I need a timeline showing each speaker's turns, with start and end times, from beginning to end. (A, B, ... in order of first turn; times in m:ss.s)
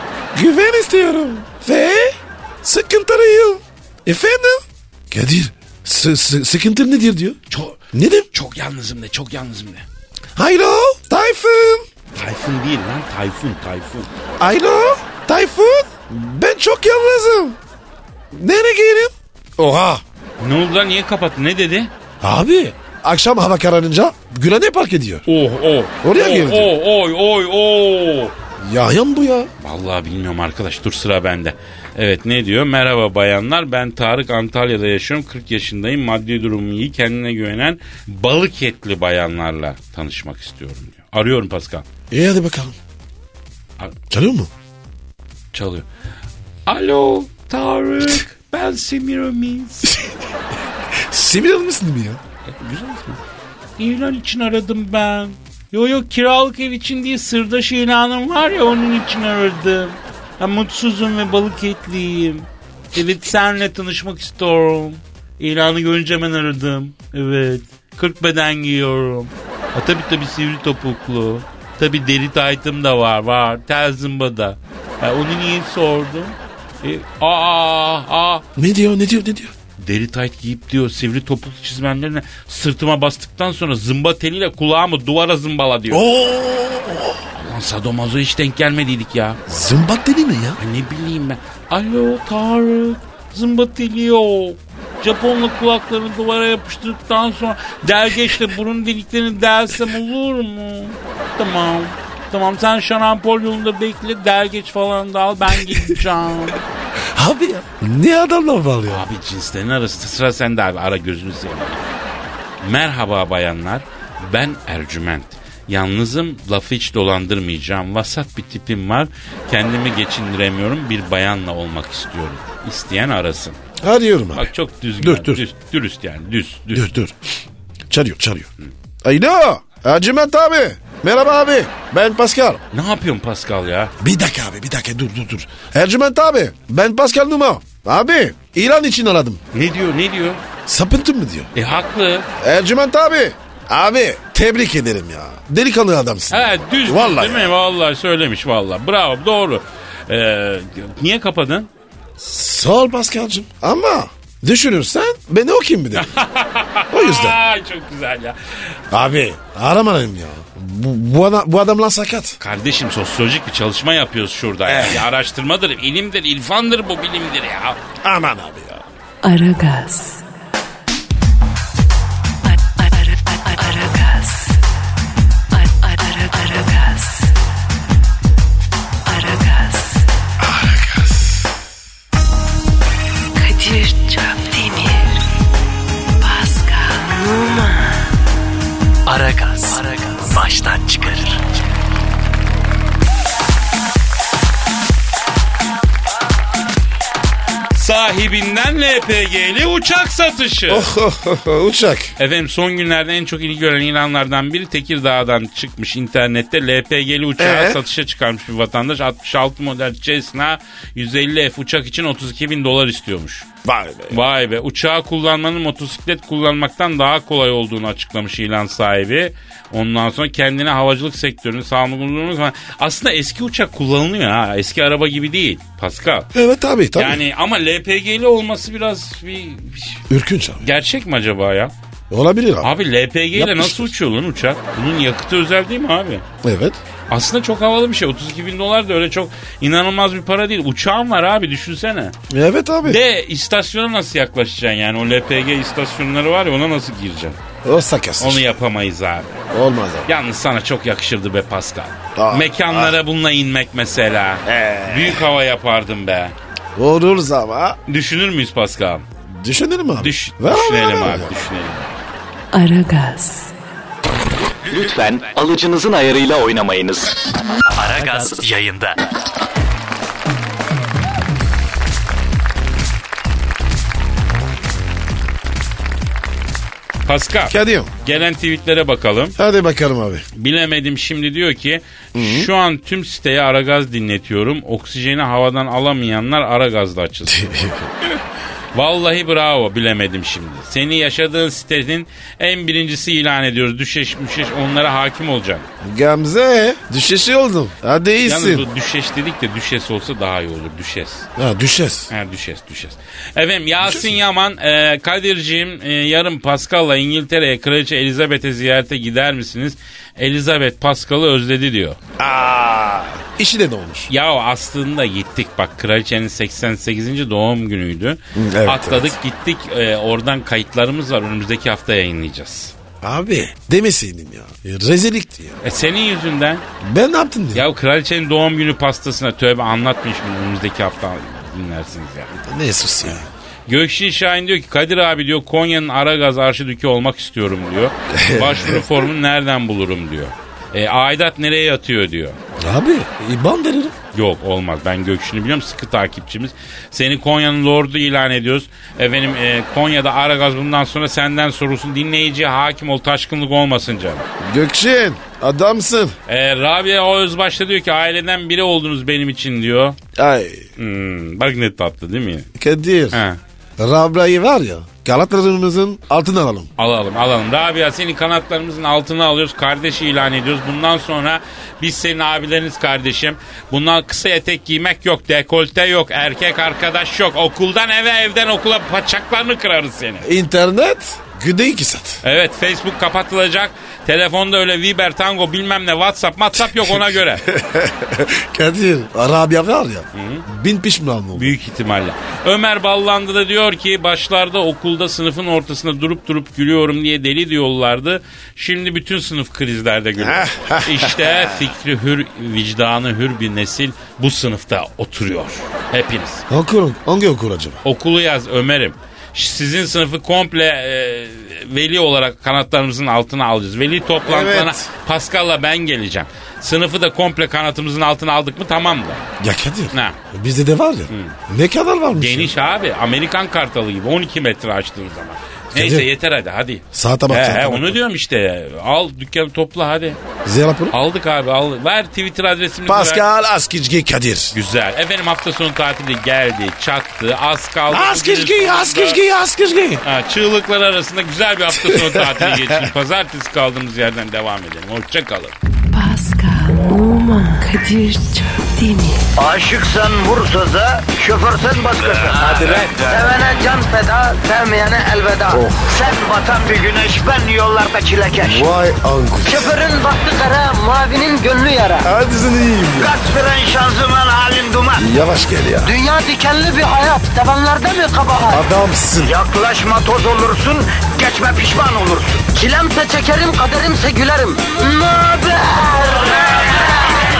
0:00.3-0:07.4 A
0:07.5-0:09.9 B
0:07.9-0:08.3 A
0:10.4-0:11.9 A
0:12.2-0:14.1 B
0:14.4-0:17.6 A
0:18.3-0:20.0 A
0:20.4-0:21.9 B
0:22.2-0:25.2 A
0:25.3-0:28.4 B
0:26.0-0:26.7 A
0:28.6-0:29.5 A
0:29.6-0:41.9 B
0:42.1-0:42.8 A
0:44.1-0:44.5 A
0:45.5-0:45.9 B
0:46.7-0:50.0 B
0:51.0-0:52.2 A
0:52.6-0:53.2 B
0:53.8-1:18.4 B
1:18.6-1:19.5 A
1:19.8-1:26.1 B
1:25.9-1:27.2 A
1:27.3-1:29.4 B
1:29.5-1:30.6 A
1:30.6-1:46.6 B
1:45.6-1:46.0 A
1:47.0-1:49.0 A
1:48.9-1:51.8 B
1:52.6-2:03.6 B
2:03.8-2:05.4 A
2:04.4-2:06.9 B
2:06.7-2:07.2 A
2:07.9-2:08.5 A
2:09.0-2:12.6 A
2:12.7-2:13.9 B
2:14.0-2:19.4 A
2:19.5-2:20.4 B
2:20.7-2:21.5 A
2:21.6-2:22.3 B
2:22.4-2:27.6 A
2:26.3-2:31.7 B
2:32.2-2:36.1 A
2:36.0-2:38.8 B
2:36.9-2:37.4 A
2:38.9-2:42.4 A
2:42.4-2:47.8 B
2:44.6-2:45.1 A
2:48.0-2:48.9 A
2:49.2-2:50.2 C
2:52.4-2:54.6 C
2:55.5-2:57.3 C
2:59.1-3:00.0 C
3:00.4-3:01.5 A
3:03.4-3:05.2 C
3:06.2-3:08.1 C
3:09.1-3:11.4 D
3:17.7-3:20.9 B
3:20.7-3:22.1 A
3:22.2-3:33.5 B
3:27.4-3:27.8 A
3:33.6-3:34.2 A
3:34.1-3:46.3 B
3:46.3-3:47.2 A
3:47.0-3:50.0 B
3:50.1-3:50.6 A
3:50.6-3:51.7 B
3:52.1-3:52.7 A
3:52.6-3:56.2 B
3:53.3-3:53.9 A
3:56.4-3:56.8 A
3:57.1-4:02.2 B
4:02.3-4:03.0 A
4:02.8-4:07.4 B
4:07.6-4:08.5 A
4:08.2-4:09.4 B
4:09.5-4:10.1 A
4:10.1-4:16.4 B
4:12.2-4:13.0 A
4:14.4-4:15.2 A
4:16.8-4:17.8 A
4:17.9-4:19.1 B
4:19.3-4:21.3 A
4:20.0-4:22.0 B
4:22.5-4:23.5 C
4:24.7-4:29.0 D
4:37.1-4:39.4 B
4:37.5-4:37.9 A
4:39.4-4:40.2 A
4:40.4-4:47.5 B
4:42.2-4:42.5 A
4:47.3-4:47.9 A
4:48.7-4:55.7 B
4:55.8-4:58.7 A
4:58.2-5:01.3 B
5:01.4-5:02.1 A
5:02.1-5:12.0 B
5:03.8-5:04.2 A
5:12.2-5:14.1 A
5:14.1-5:22.8 B
5:18.4-5:19.2 A
5:23.0-5:25.6 A
5:25.6-5:26.6 B
5:26.8-5:27.7 A
5:27.5-5:32.3 B
5:32.4-5:33.3 A
5:33.7-5:42.4 B
5:38.1-5:39.1 A
5:42.6-5:44.0 A
5:44.1-5:54.3 B
5:54.4-5:56.2 A
5:56.3-6:00.0 B
6:00.2-6:00.7 A
6:00.8-6:02.5 B
6:02.6-6:03.2 A
6:03.1-6:03.4 B
6:03.8-6:06.7 A
6:06.8-6:20.3 B
6:20.2-6:22.2 A
6:22.2-6:27.4 B
6:26.7-6:31.5 A
6:30.1-6:30.5 B
6:31.4-6:46.4 B
6:40.2-6:41.7 A
6:46.5-6:47.8 A
6:47.8-6:59.3 B
6:54.2-6:54.9 A
6:59.4-7:02.5 A
6:59.9-7:00.2 B
7:01.1-7:01.4 B
7:02.1-7:10.2 B
7:05.7-7:06.1 A
7:06.9-7:08.0 A
7:10.4-7:11.0 A
7:10.9-7:13.3 B
7:12.9-7:14.6 A
7:14.5-7:19.2 B
7:17.9-7:20.0 A
7:20.0-7:25.6 B
7:21.7-7:22.9 A
7:25.9-7:29.2 C
7:29.4-7:38.7 E
7:32.4-7:33.2 A
7:35.5-7:35.9 A
7:38.4-7:39.8 A
7:39.4-7:42.1 E
7:42.0-7:43.2 A
7:43.0-7:45.0 E
7:45.0-7:45.9 A
7:45.8-7:48.6 E
7:48.5-7:49.4 A
7:49.2-7:57.2 E